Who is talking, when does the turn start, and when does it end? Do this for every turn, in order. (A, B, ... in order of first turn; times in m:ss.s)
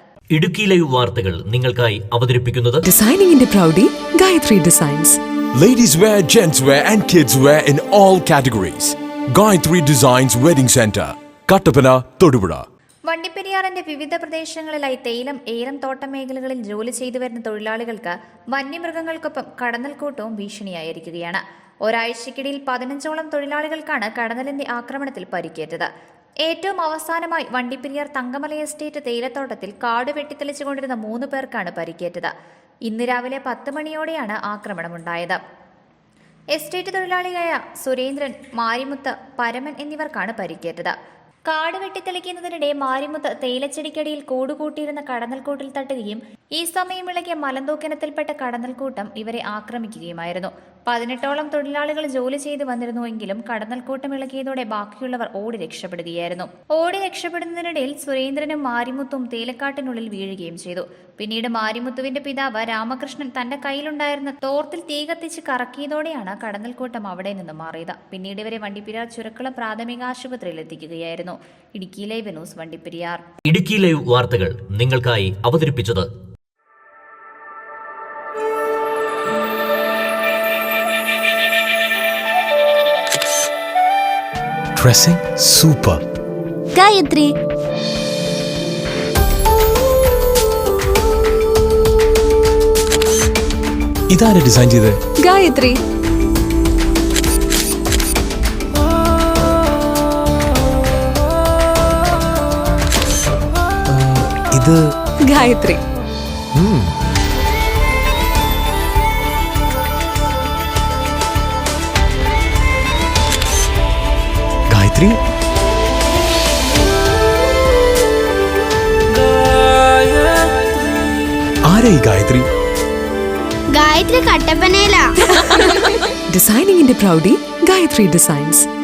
0:00.3-0:02.8 A
0:02.8-0:05.2 B
0:05.6-0:12.6 C
0:13.1-0:25.9 D
0:26.4-0:32.3 D
0:32.9-0:35.4 D
0:36.5-0:40.9 D
0:41.5-1:13.2 D
1:13.5-1:16.1 A
1:24.8-1:26.0 C
1:26.8-1:27.3 E
1:34.1-1:35.0 C
1:35.2-1:35.8 B
1:45.2-1:45.8 B
1:54.7-1:55.1 C
2:01.7-2:02.4 C
2:03.7-2:05.1 E
2:05.4-2:08.7 B